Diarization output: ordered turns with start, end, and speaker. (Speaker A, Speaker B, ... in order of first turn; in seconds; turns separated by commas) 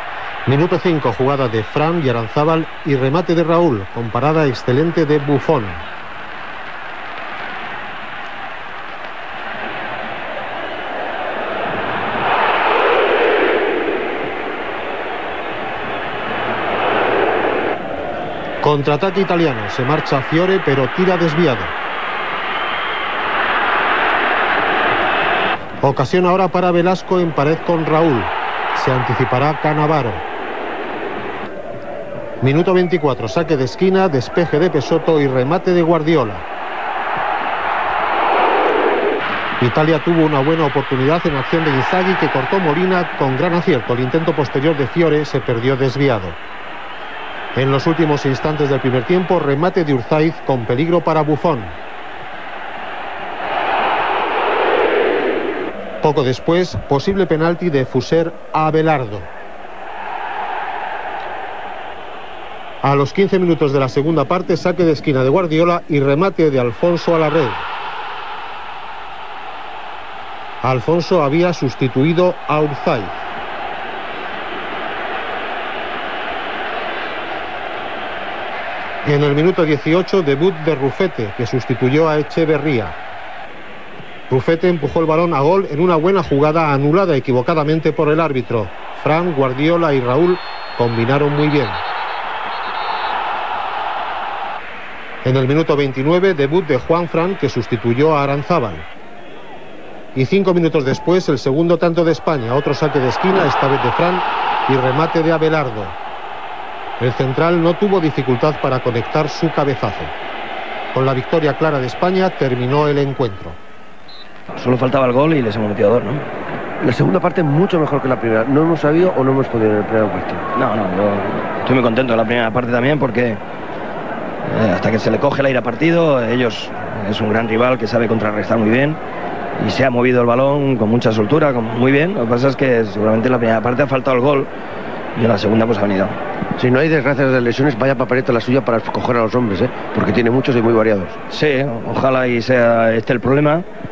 Speaker A: 0.5-5.8, Speaker A: 18.6-21.7, Speaker A: 25.8-30.2, Speaker A: 32.4-36.4, Speaker A: 39.6-46.4, Speaker A: 47.5-51.7, Speaker A: 56.0-59.3, Speaker A: 62.8-67.6, Speaker A: 70.6-73.2, Speaker A: 79.0-82.9, Speaker A: 84.3-91.8, Speaker A: 95.2-98.9, Speaker A: 100.2-106.0, Speaker A: 107.0-110.1, Speaker A: 110.9-113.6, Speaker B: 114.5-116.3, Speaker C: 116.8-120.5, Speaker B: 120.5-123.4, Speaker B: 124.4-129.0, Speaker B: 129.6-134.5, Speaker B: 135.2-136.2, Speaker C: 136.6-141.2, Speaker B: 141.3-143.7